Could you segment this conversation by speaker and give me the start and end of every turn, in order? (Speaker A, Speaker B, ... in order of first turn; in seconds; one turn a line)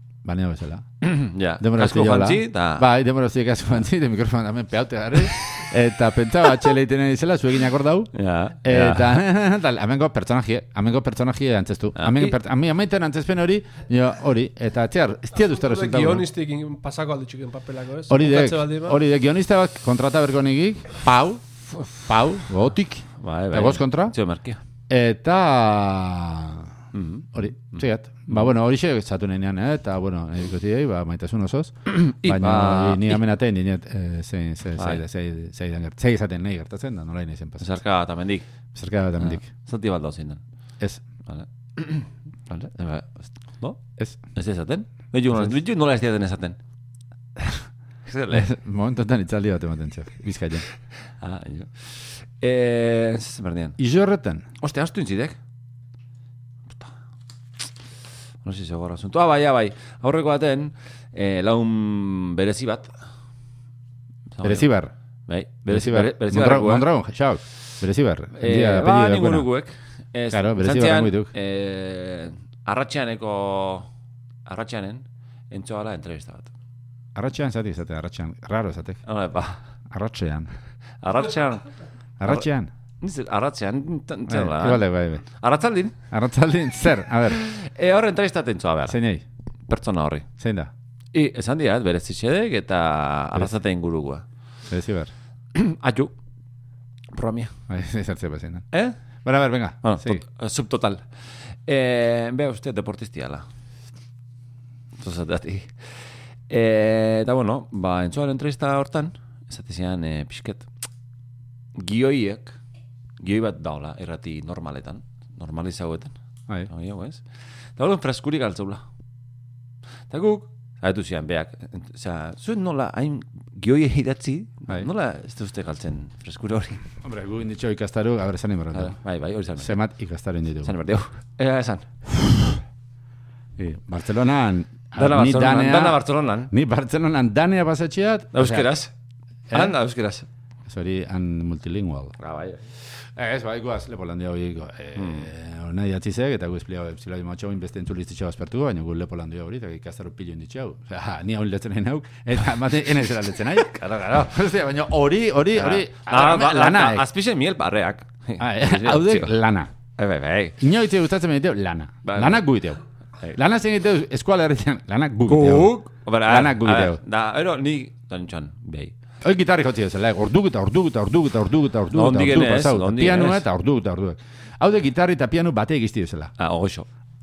Speaker A: 0.2-0.9
Speaker B: 1.0-2.9
Speaker A: 1.6-8.1
Speaker B: 8.1-9.2
Speaker A: 8.6-16.3
Speaker B: 11.9-12.3
Speaker C: 15.5-19.0
Speaker A: 18.1-24.1
Speaker B: 23.2-24.6
Speaker A: 24.9-26.7
Speaker B: 26.9-28.5
Speaker A: 27.3-37.7
Speaker B: 31.9-33.2
Speaker B: 34.8-35.0
Speaker B: 37.6-38.5
Speaker A: 38.7-39.5
Speaker B: 39.2-40.4
Speaker B: 41.2-43.8
Speaker B: 44.3-46.6
Speaker B: 48.0-48.5
Speaker A: 48.3-50.6
Speaker B: 51.2-53.8
Speaker A: 53.8-54.4
Speaker B: 54.6-55.4
Speaker B: 58.4-62.9
Speaker B: 64.3-64.7
Speaker A: 64.4-64.9
Speaker B: 65.3-66.9
Speaker A: 65.7-69.5
Speaker B: 68.4-73.9
Speaker A: 70.3-71.3
Speaker B: 74.5-76.5
Speaker A: 77.1-79.0
Speaker B: 79.0-79.6
Speaker A: 79.9-80.5
Speaker B: 81.0-81.7
Speaker A: 82.2-82.7
Speaker B: 83.0-86.0
Speaker A: 84.3-85.2
Speaker A: 86.1-87.4
Speaker B: 87.3-89.0
Speaker A: 88.9-89.2
Speaker B: 89.7-90.3
Speaker A: 90.4-90.7
Speaker B: 91.1-94.2
Speaker A: 94.7-95.1
Speaker B: 95.5-96.1
Speaker B: 97.1-97.5
Speaker A: 97.7-98.7
Speaker A: 99.2-100.2
Speaker B: 99.8-101.0
Speaker B: 101.7-103.4
Speaker B: 105.0-105.9
Speaker B: 106.5-110.7
Speaker B: 111.8-112.5
Speaker B: 113.2-116.1
Speaker B: 116.7-117.2
Speaker B: 117.8-118.8
Speaker B: 120.1-126.8
Speaker A: 127.0-128.9
Speaker B: 128.7-129.8
Speaker A: 129.6-130.7
Speaker B: 130.6-131.9
Speaker A: 132.2-132.5
Speaker A: 133.6-138.7
Speaker B: 134.9-136.5
Speaker B: 138.3-138.9
Speaker A: 139.5-139.7
Speaker B: 139.5-140.3
Speaker A: 140.7-142.1
Speaker B: 142.2-142.6
Speaker A: 143.1-157.0
Speaker B: 144.9-145.3
Speaker B: 153.5-154.3
Speaker B: 155.5-159.3
Speaker A: 158.4-159.7
Speaker B: 160.0-160.6
Speaker A: 160.6-162.8
Speaker B: 162.0-162.4
Speaker A: 163.3-165.7
Speaker B: 165.2-168.9
Speaker A: 166.2-167.0
Speaker A: 169.2-176.3
Speaker B: 171.9-173.4
Speaker B: 176.4-176.8